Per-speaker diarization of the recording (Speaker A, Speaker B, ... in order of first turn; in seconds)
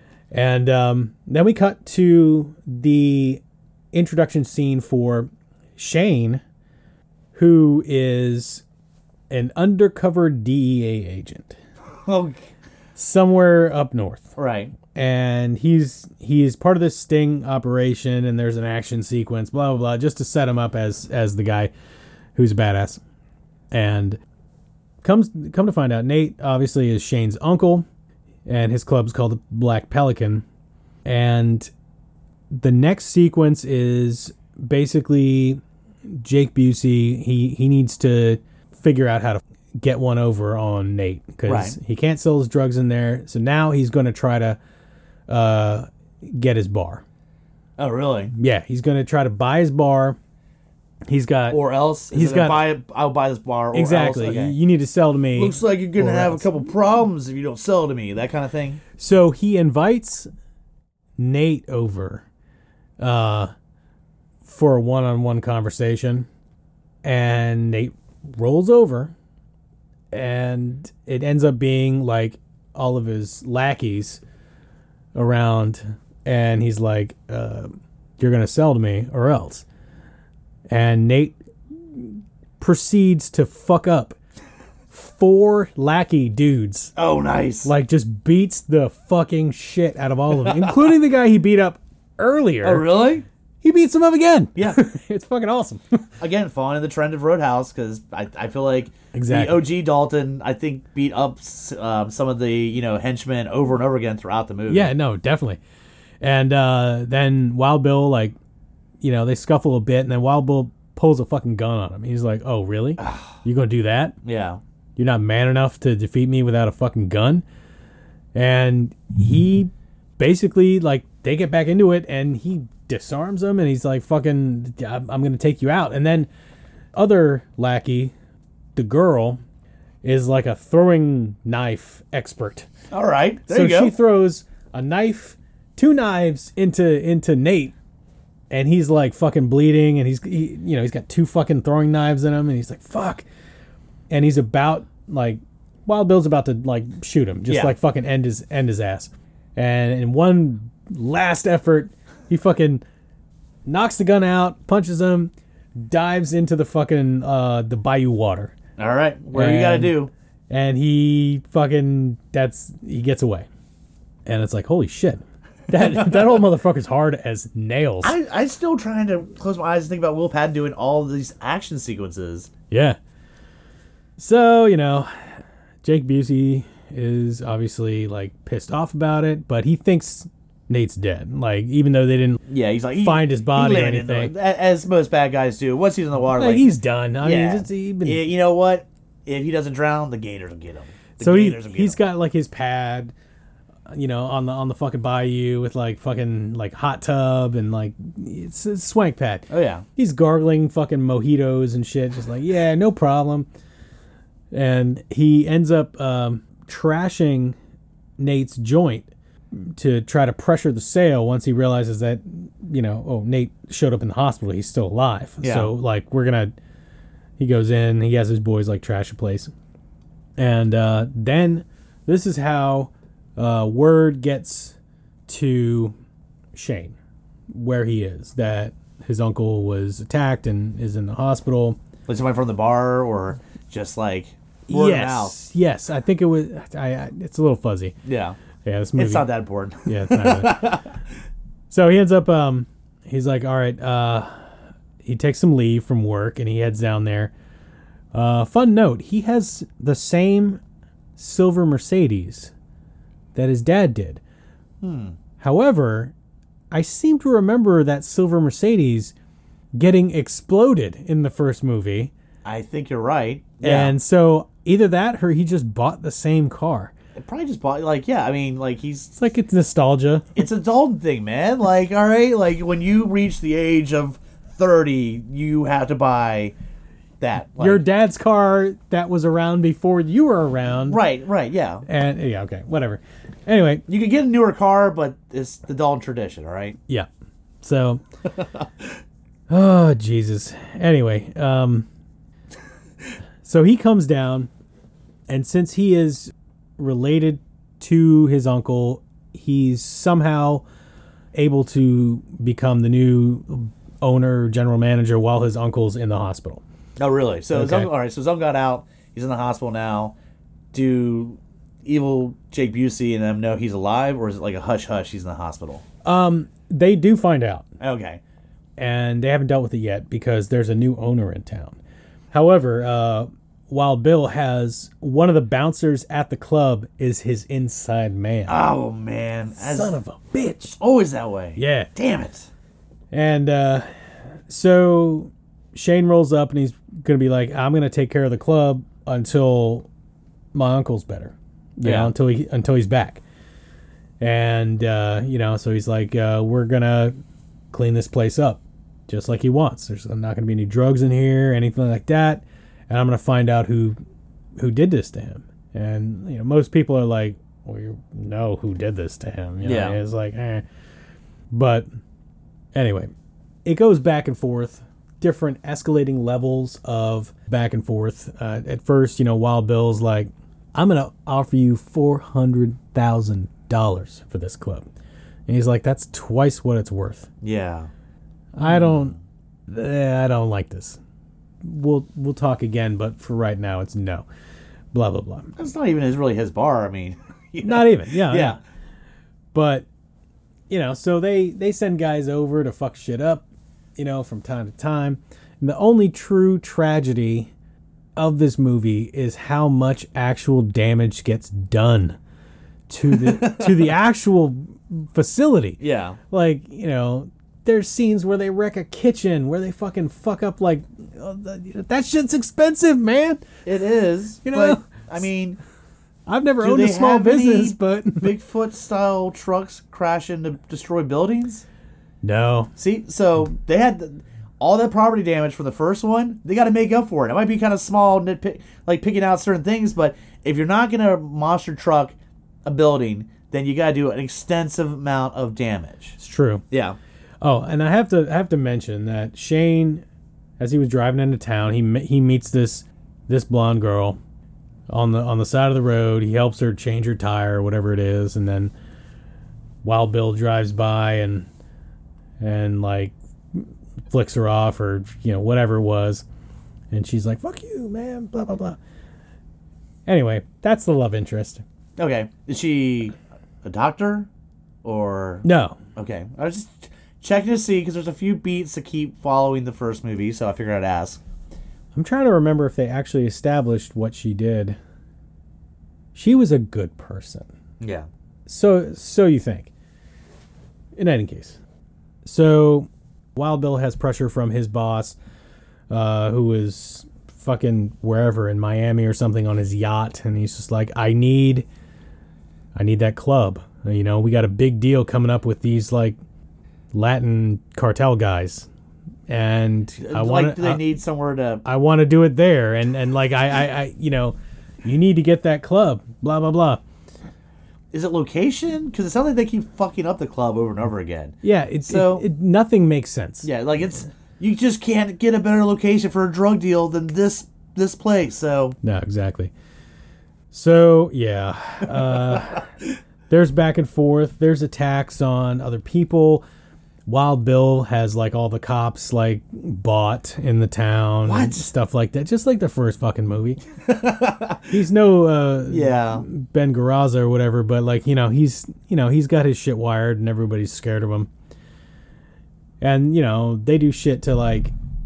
Speaker A: 0.3-3.4, 3.9-6.4, 7.3-8.6, 9.3-11.6, 12.9-14.3, 14.9-21.7, 22.3-23.0, 23.7-24.2, 25.0-27.9, 28.4-30.4, 31.1-31.7, 32.5-44.6, 45.3-47.0, 48.3-50.2, 51.1-51.6, 52.1-52.6, 53.7-56.5, 59.0-60.3, 61.2-62.2, 63.0-63.5, 64.4-66.3, 67.0-69.1, 70.1-74.2, 75.1-79.6, 80.7-81.4, 81.9-84.2, 84.9-86.9, 87.6-92.9, 93.6-96.0, 99.1-99.6, 104.7-105.6, 106.2-108.3, 109.0-114.2, 115.0-117.4, 118.3-126.3, 126.9-128.1, 128.8-129.4, 130.0-132.7, 133.5-137.7, 138.5-143.2, 144.1-152.8, 153.7-158.5, 159.3-159.9, 160.5-163.5, 164.2-168.1, 172.7-173.0, 174.2-175.1, 175.8-182.4, 183.0-184.3, 186.3-188.2, 191.2-193.1, 193.9-203.5, 204.5-207.6, 208.2-216.5, 217.4-219.5, 220.4-224.8, 225.3-225.9, 226.5-226.9, 227.5-231.8, 234.7-237.9, 238.6-239.3, 239.8-240.7, 241.7-244.4, 245.0-247.3, 248.1-250.6, 251.2-252.5, 253.3-254.2, 255.4-256.1, 256.7-259.1, 259.7-262.1, 263.6-266.9, 269.2-270.2, 277.6-281.0, 281.9-283.8, 287.6-288.0, 289.5-291.9, 293.4-294.5, 295.3-300.6, 301.3-306.6, 307.5-307.9, 316.0-317.6, 318.8-321.8, 322.3-328.6, 329.6-330.8, 331.6-331.9, 333.1-333.9, 334.5-339.9, 340.5-343.2, 344.2-347.1, 347.7-354.0, 354.6-360.6, 361.5-361.9, 362.7-363.1, 363.6-374.9, 375.5-377.3, 378.6-379.1, 379.7-381.0, 381.6-384.2, 384.9-385.5, 387.6-388.6, 389.5-389.9, 390.7-393.4, 394.0-397.5, 398.1-402.2, 402.9-405.8, 406.3-413.4, 414.4-415.1, 416.3-418.3, 422.2-422.7, 436.2-436.6, 437.4-440.0, 440.6-444.2, 444.9-448.7, 449.8-451.5, 452.4-456.2, 456.9-458.8, 460.1-461.6, 465.4-465.8, 471.9-474.8, 476.1-477.5, 478.5-479.7, 480.9-481.6, 482.2-485.2, 485.9-491.6, 492.7-496.2, 496.9-498.7, 499.3-500.8, 501.6-506.8, 511.4-513.5, 518.8-519.5, 520.5-522.6, 523.3-526.4, 527.1-533.6, 534.7-541.3, 542.8-544.7
Speaker B: 12.1-12.4, 14.4-14.7, 41.5-41.8, 47.8-48.3, 51.5-54.5, 55.4-58.8, 87.0-87.7, 90.4-90.9, 92.6-93.2, 96.2-104.9, 113.0-113.3, 114.2-114.6, 132.9-133.9, 147.5-147.7, 158.8-160.1, 168.0-172.5, 182.5-186.7, 187.2-192.0, 199.5-199.8, 215.4-215.7, 232.1-235.3, 238.0-238.3, 239.0-240.9, 254.8-255.2, 262.4-263.9, 267.1-269.1, 270.4-276.5, 277.2-277.8, 280.9-281.8, 283.9-286.8, 307.0-310.1, 310.7-315.8, 317.8-318.2, 328.5-329.9, 330.8-332.5, 341.8-342.1, 359.6-360.0, 377.4-377.9, 378.6-379.1, 385.6-388.6, 403.1-403.9, 405.8-406.2, 413.6-415.6, 416.6-421.6, 422.8-436.2, 436.7-437.0, 462.0-464.3, 464.8-465.4, 465.9-471.2, 477.8-478.1, 500.0-501.6, 507.9-512.2, 513.4-518.8, 531.2-531.7, 533.9-534.6, 535.7-536.2